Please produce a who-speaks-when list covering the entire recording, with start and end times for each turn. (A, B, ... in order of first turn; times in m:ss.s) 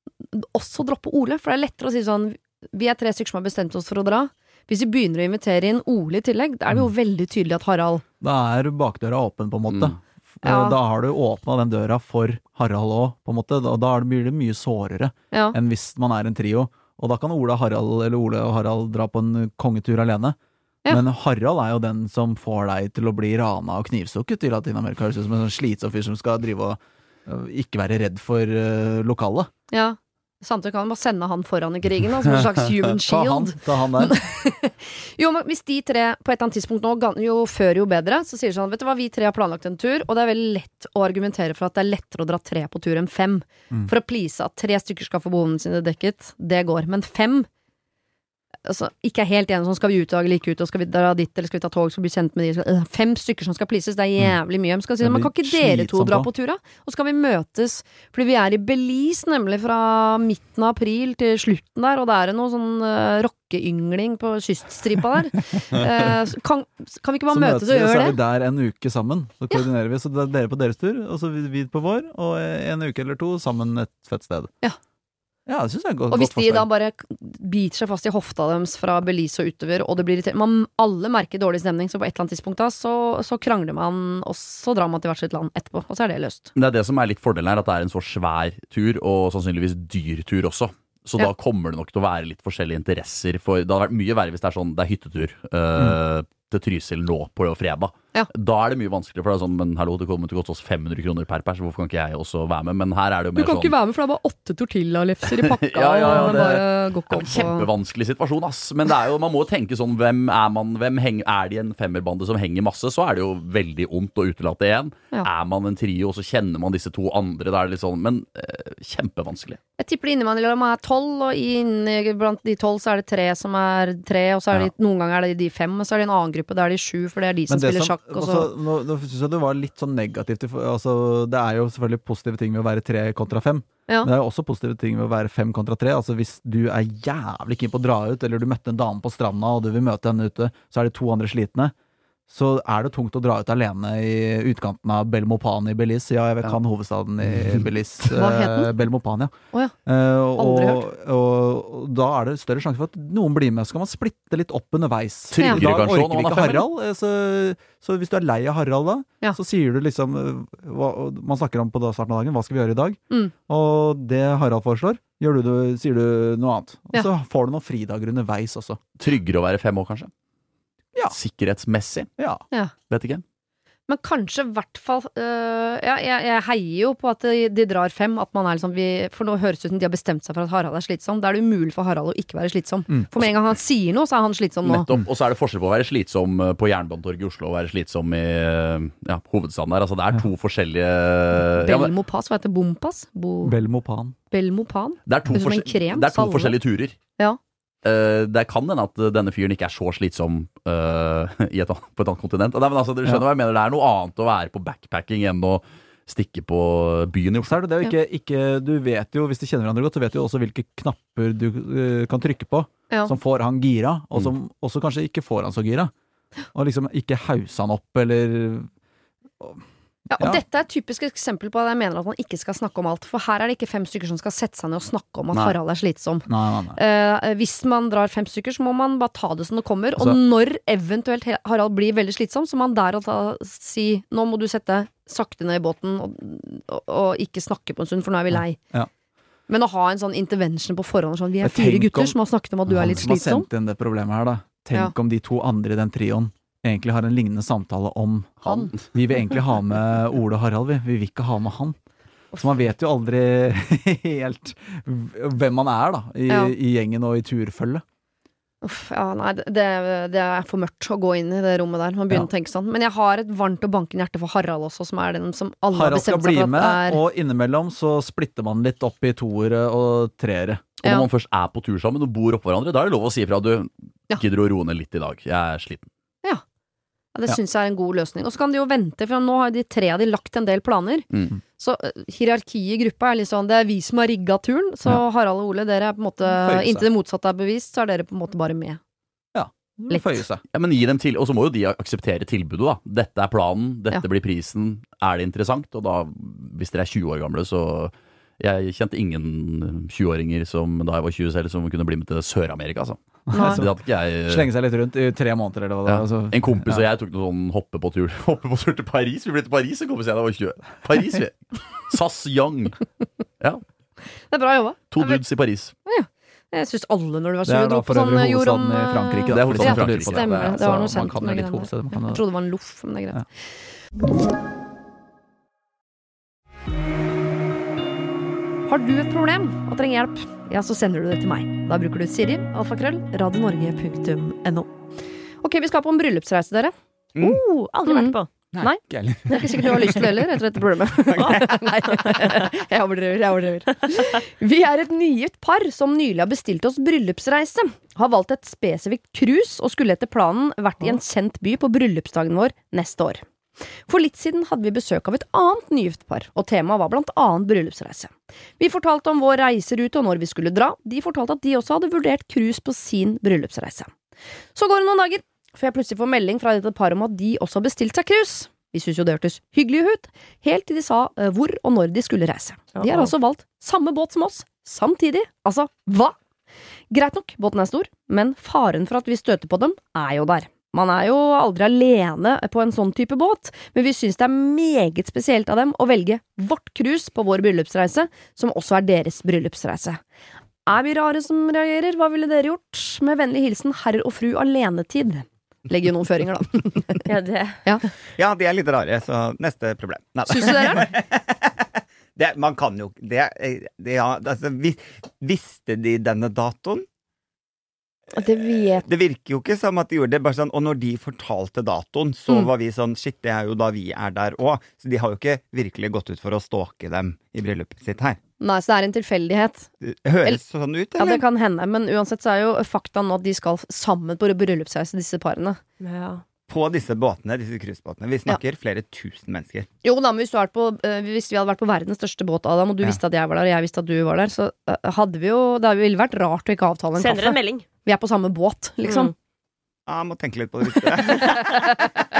0:00.3-0:08.0 A
0:08.2-0:20.4 B
0:09.7-0:09.9 C
0:10.4-0:10.8 A
0:20.9-0:29.5 B
0:29.7-0:47.5 A
0:32.8-0:34.2 B
0:48.6-1:08.2 A
0:55.0-0:56.3 B
1:07.3-1:14.5 B
1:15.4-1:16.7 B
1:16.1-1:26.5 A
1:26.6-1:43.7 C
1:43.4-1:47.7 A
1:45.3-1:59.6 C
1:46.0-1:46.6 B
1:59.8-2:08.5 A
2:07.5-2:21.7 B
2:22.3-2:29.3 B
2:27.3-2:27.6 C
2:28.2-2:28.7 A
2:29.8-2:48.8 B
2:30.4-2:30.8 A
2:35.3-2:36.6 C
2:49.0-2:50.1 C
2:51.1-2:52.1 C
2:52.2-2:52.4 B
2:52.9-2:53.2 C
2:53.9-3:04.9 A
3:04.6-3:11.9 C
3:11.4-3:13.6 A
3:13.4-3:14.2 B
3:14.3-3:16.6 A
3:15.1-3:17.0 C
3:17.8-3:27.5 C
3:27.4-3:35.9 B
3:36.5-3:38.7 B
3:39.4-3:39.6 B
3:40.1-3:58.6 A
3:40.2-3:40.4 B
3:46.3-3:46.8 B
3:58.3-3:58.9 B
3:59.5-4:03.5 A
4:01.4-4:11.8 B
4:08.4-4:08.9 C
4:08.4-4:08.7 A
4:12.3-4:17.8 B
4:16.3-4:16.5 A
4:18.6-4:27.0 A
4:25.7-4:30.6 B
4:30.8-4:35.9 C
4:37.1-4:41.0 A
4:41.6-4:48.8 A
4:46.2-4:46.8 B
4:49.3-4:50.4 B
4:49.9-4:50.2 A
4:50.5-5:04.5 C
5:03.3-5:06.8 B
5:03.3-5:03.6 A
5:05.8-5:12.8 C
5:14.3-5:15.2 A
5:14.9-5:15.7 C
5:15.8-5:23.2 A
5:17.4-5:22.2 B
5:19.3-5:20.5 C
5:28.7-5:34.7 A
5:35.4-5:36.7 A
5:37.2-5:38.3 D
5:37.8-5:53.2 A
5:38.5-5:40.2 E
5:41.1-5:41.4 E
5:41.2-5:42.5 D
5:53.8-6:03.9 A
6:04.5-6:16.2 A
6:12.7-6:13.1 D
6:16.9-6:30.0 A
6:30.6-6:37.0 A
6:37.0-6:37.6 D
6:38.2-6:41.6 E
6:40.3-6:40.9 A
6:42.2-6:46.8 E
6:48.2-6:48.8 A
6:48.8-6:58.2 E
6:58.4-6:59.7 A
6:59.8-7:01.2 E
7:01.0-7:05.6 A
7:06.5-7:09.7 E
7:09.8-7:19.1 A
7:17.0-7:17.6 D
7:18.8-7:19.1 D
7:19.9-7:22.0 E